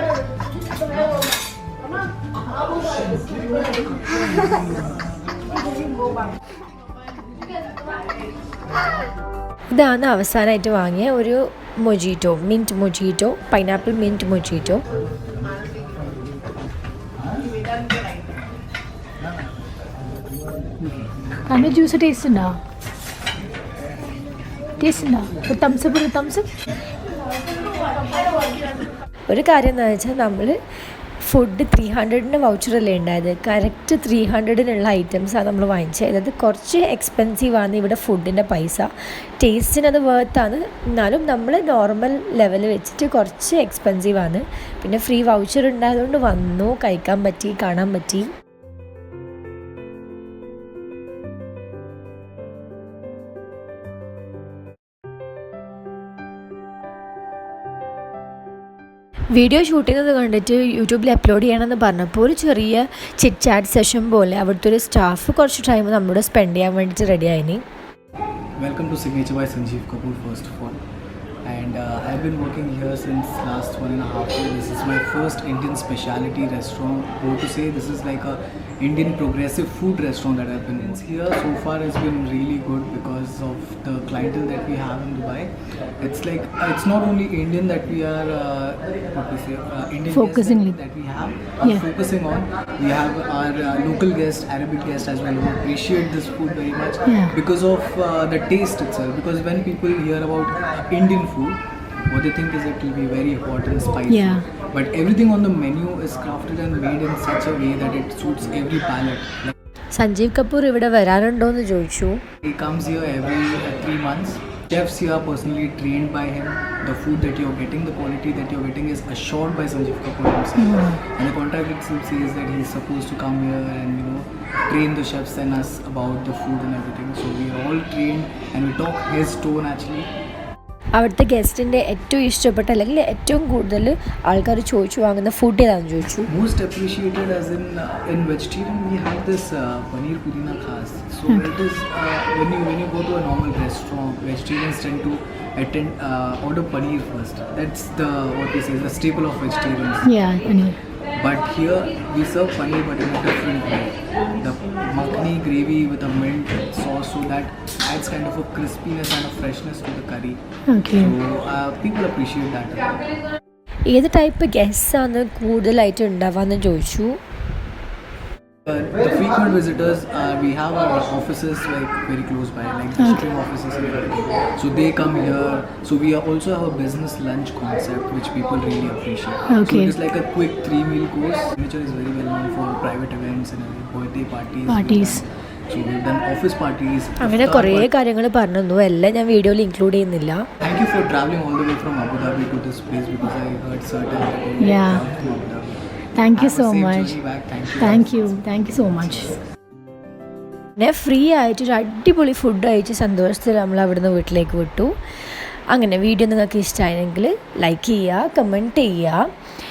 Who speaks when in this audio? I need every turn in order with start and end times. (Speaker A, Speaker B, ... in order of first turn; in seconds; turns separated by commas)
Speaker A: 9.7-14.8, Speaker B: 21.5-22.6, Speaker B: 24.8-26.5, Speaker A: 29.3-30.6, Speaker A: 31.2-48.3, Speaker A: 59.3-67.6, Speaker C: 68.6-70.8, Speaker C: 71.4-109.5, Speaker B: 90.1-90.8, Speaker B: 97.1-97.4, Speaker B: 104.1-104.4, Speaker A: 109.9-112.2, Speaker C: 112.4-130.1, Speaker A: 131.0-136.3, Speaker C: 136.3-150.2, Speaker B: 150.1-150.8, Speaker C: 151.1-160.4, Speaker B: 160.7-161.1, Speaker C: 160.9-163.1, Speaker A: 163.9-167.2, Speaker C: 168.7-187.9, Speaker B: 179.6-179.9, Speaker B: 184.7-185.2, Speaker A: 187.2-190.4, Speaker C: 190.6-199.2, Speaker B: 194.6-195.0, Speaker B: 196.2-197.2, Speaker B: 197.8-199.4, Speaker A: 200.8-204.9, Speaker A: 205.7-209.3